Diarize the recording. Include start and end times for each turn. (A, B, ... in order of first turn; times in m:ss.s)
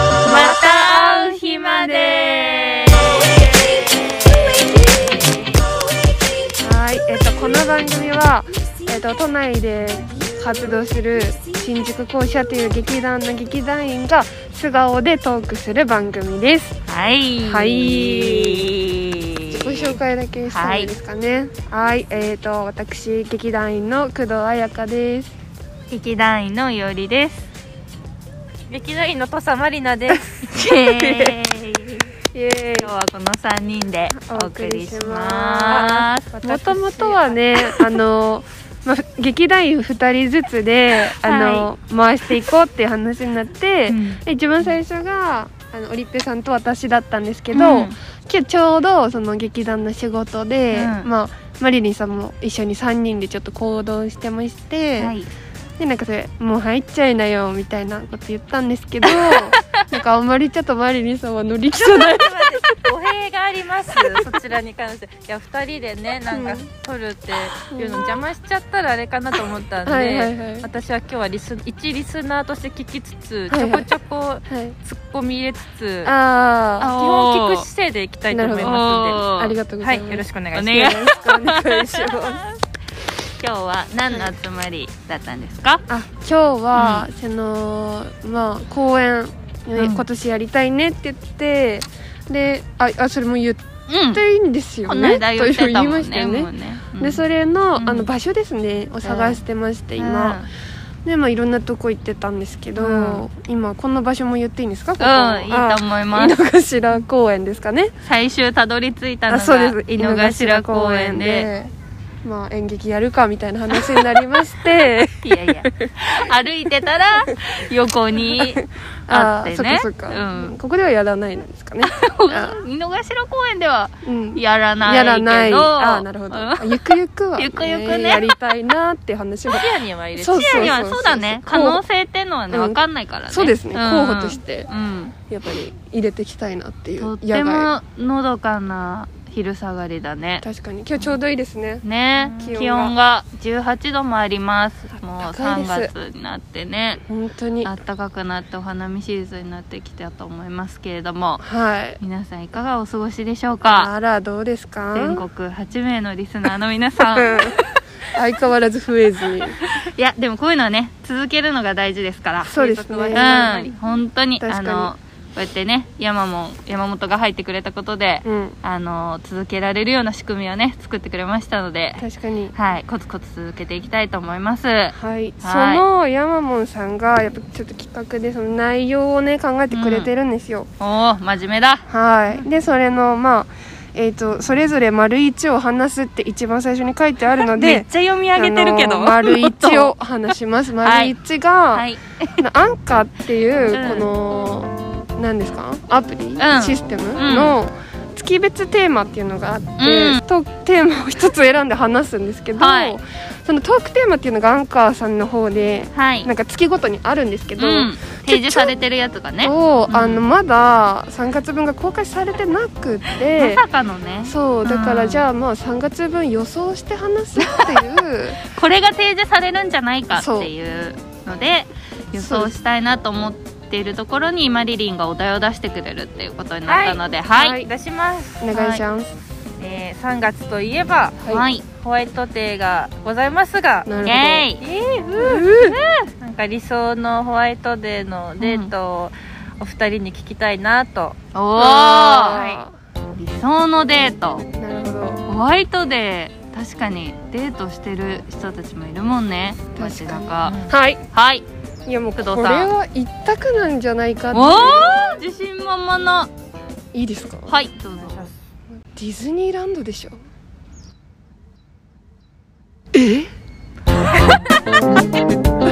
0:00.2-0:03.4 A
0:00.3-0:01.1 B
0:01.8-0:03.0 B
0:06.6-0:16.8 B
0:16.9-0:20.0 A
0:17.4-0:18.7 B
0:19.5-0:25.4 B
0:20.5-0:20.9 A
0:25.9-0:27.5 A
0:28.7-0:30.3 C
0:30.4-0:32.1 A
0:30.8-0:31.4 B
0:32.3-0:32.9 B
0:32.8-0:37.9 A
0:34.1-0:55.1 B
0:41.2-0:41.7 A
0:43.9-0:44.2 A
0:47.5-0:48.0 A
0:50.7-0:51.1 A
0:55.0-0:55.3 A
0:55.8-1:02.6 B
0:59.1-0:59.9 A
1:01.7-1:16.1 C
1:06.3-1:06.7 B
1:07.7-1:08.3 B
1:09.8-1:10.7 B
1:13.5-1:13.9 B
1:14.5-1:14.8 B
1:16.0-1:16.9 B
1:16.8-1:17.7 A
1:16.9-1:19.2 C
1:18.3-1:22.4 B
1:18.6-1:19.6 A
1:19.8-1:21.0 C
1:20.5-1:22.6 A
1:23.3-1:25.8 A
1:25.9-1:40.4 B
1:26.7-1:27.1 A
1:29.8-1:30.0 A
1:33.9-1:34.2 A
1:34.9-1:37.2 A
1:37.8-1:38.1 A
1:39.0-1:39.4 A
1:40.0-1:40.5 A
1:41.0-1:47.9 B
1:42.8-1:43.3 A
1:45.0-1:46.4 A
1:48.0-1:51.5 A
1:49.3-1:51.7 B
1:52.2-1:55.9 B
1:55.2-2:00.6 A
1:58.3-2:02.6 B
2:01.8-2:08.3 A
2:04.0-2:11.8 B
2:09.5-2:10.8 C
2:10.4-2:15.2 A
2:12.5-2:14.7 B
2:15.3-2:17.7 B
2:17.0-2:20.5 A
2:20.4-2:21.8 B
2:21.8-2:27.0 A
2:22.2-2:22.5 C
2:22.4-2:22.9 B
2:25.2-2:25.9 B
2:27.1-2:27.7 B
2:27.6-2:31.4 A
2:31.4-2:32.0 B
2:32.0-2:33.9 A
2:33.7-2:35.2 B
2:34.9-2:37.7 A
2:37.0-2:37.6 B
2:38.1-2:39.6 B
2:39.6-2:55.8 A
2:42.4-2:43.6 B
2:42.6-2:43.7 C
2:44.4-2:44.9 B
2:48.2-2:48.6 B
2:52.0-2:52.5 B
2:55.0-3:00.7 B
2:59.7-3:00.1 A
3:00.8-3:02.4 A
3:01.9-3:11.9 B
3:07.4-3:09.9 A
3:10.8-3:11.2 A
3:11.7-3:12.4 A
3:12.4-3:28.7 B
3:13.7-3:14.1 A
3:16.4-3:17.6 A
3:19.8-3:20.2 A
3:22.6-3:23.0 A
3:25.9-3:26.3 A
3:27.6-3:30.2 A
3:29.4-3:33.6 B
3:33.4-3:35.3 A
3:34.2-3:38.4 B
3:37.4-3:37.7 A
3:38.4-3:47.6 A
3:40.1-3:40.5 B
3:42.2-3:42.5 B
3:46.7-3:48.4 C
3:47.3-3:47.7 B
3:48.4-3:49.1 B
3:48.5-3:48.8 A
3:49.6-3:53.9 C
3:51.3-3:51.6 A
3:53.9-3:54.5 B
3:54.0-3:54.6 A
3:54.6-3:55.5 C
3:55.2-3:55.8 B
3:55.5-3:56.1 A
3:56.2-4:01.2 C
3:58.4-3:58.7 A
4:01.3-4:02.6 A
4:01.6-4:02.7 B
4:03.2-4:04.5 A
4:04.5-4:05.2 B
4:05.3-4:11.4 A
4:09.8-4:11.0 B
4:10.4-4:10.7 C
4:11.9-4:15.0 B
4:12.2-4:12.7 A
4:14.3-4:16.3 A
4:16.9-4:17.5 B
4:17.5-4:18.3 A
4:18.0-4:18.3 C
4:18.9-4:20.2 B
4:22.9-4:23.3 B